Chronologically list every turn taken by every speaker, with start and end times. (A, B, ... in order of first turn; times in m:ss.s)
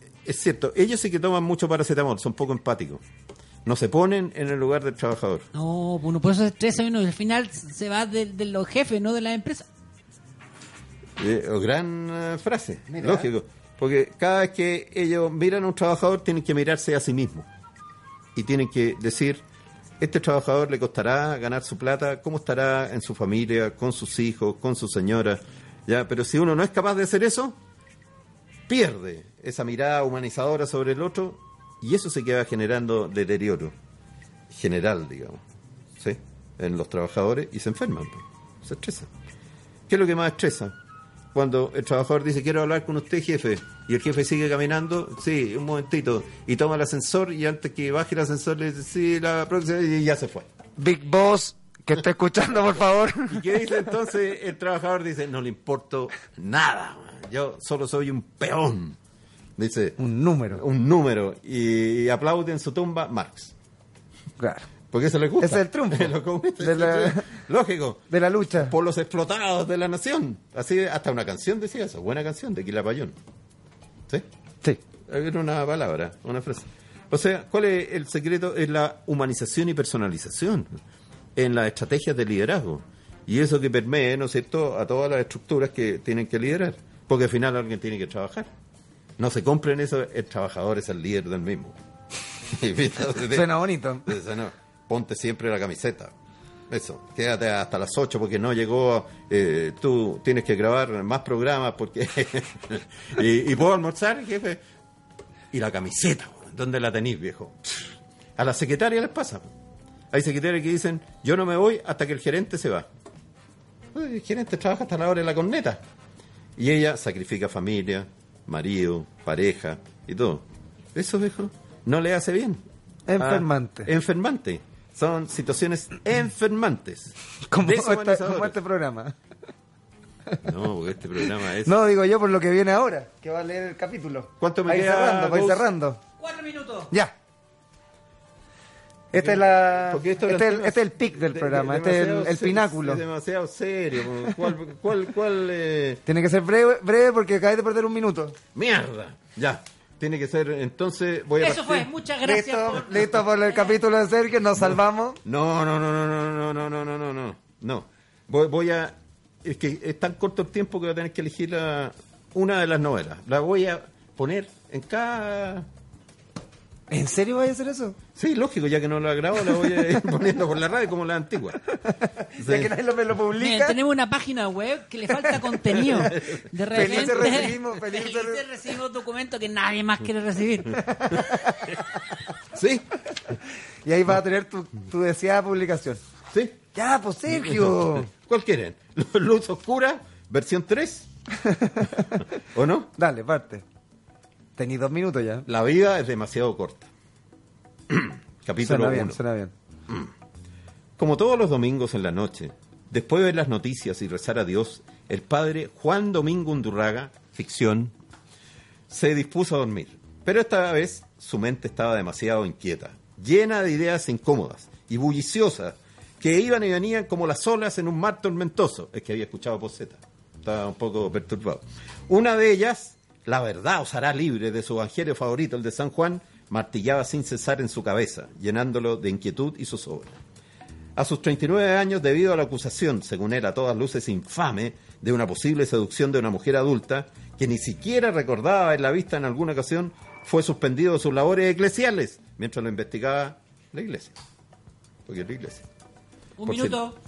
0:00.2-0:03.0 A
0:03.6-0:05.5 A
0:05.6-0:09.7 B
0:11.2-0:17.5 A
0:12.9-0:13.3 C
0:18.4-0:19.4 A
0:20.0-0:27.6 A
0:28.7-0:33.8 A
0:34.5-0:35.4 A
0:36.0-0:39.1 A
0:39.9-0:40.8 A
0:41.3-0:50.5 A
0:50.8-0:53.4 C
0:53.3-0:59.0 A
0:59.6-1:00.0 A
1:00.0-1:00.6 C
1:00.5-1:03.5 A
1:04.4-1:04.7 C
1:04.9-1:08.0 A
1:05.4-1:07.3 C
1:08.1-1:08.7 C
1:08.6-1:13.2 A
1:15.1-1:20.7 A
1:21.4-1:28.5 A
1:29.2-1:31.8 A
1:32.5-1:36.1 A
1:33.3-1:34.1 C
1:36.7-1:44.6 A
1:45.5-1:49.5 A
1:50.1-1:52.9 A
1:53.9-1:55.8 A
1:56.6-2:02.6 A
2:03.1-2:03.9 C
2:03.2-2:08.6 A
2:07.5-2:09.2 C
2:10.4-2:11.8 A
2:11.6-2:16.0 C
2:14.4-2:15.7 A
2:16.2-2:16.9 B
2:19.1-2:23.0 C
2:19.1-2:26.0 A
2:26.1-2:28.4 C
2:28.5-2:31.9 A
2:31.4-2:33.6 B
2:32.2-2:35.2 C
2:35.2-2:45.7 A
2:46.9-2:48.0 C
2:48.1-2:51.6 A
2:52.2-2:53.8 C
2:52.4-2:52.7 A
2:53.4-3:01.2 B
2:56.1-2:56.4 A
2:56.7-2:58.4 C
3:00.7-3:01.8 C
3:02.5-3:02.9 A
3:03.8-3:06.0 C
3:06.3-3:06.6 A
3:06.8-3:08.1 C
3:07.3-3:11.1 A
3:11.4-3:12.2 C
3:12.4-3:12.9 A
3:13.0-3:13.6 C
3:14.6-3:15.5 C
3:15.5-3:16.9 A
3:17.9-3:19.2 A
3:18.6-3:19.5 C
3:21.0-3:27.9 A
3:28.9-3:50.2 A
3:51.0-4:04.1 A
4:05.1-4:05.7 A
4:06.4-4:07.0 B
4:06.4-4:06.8 A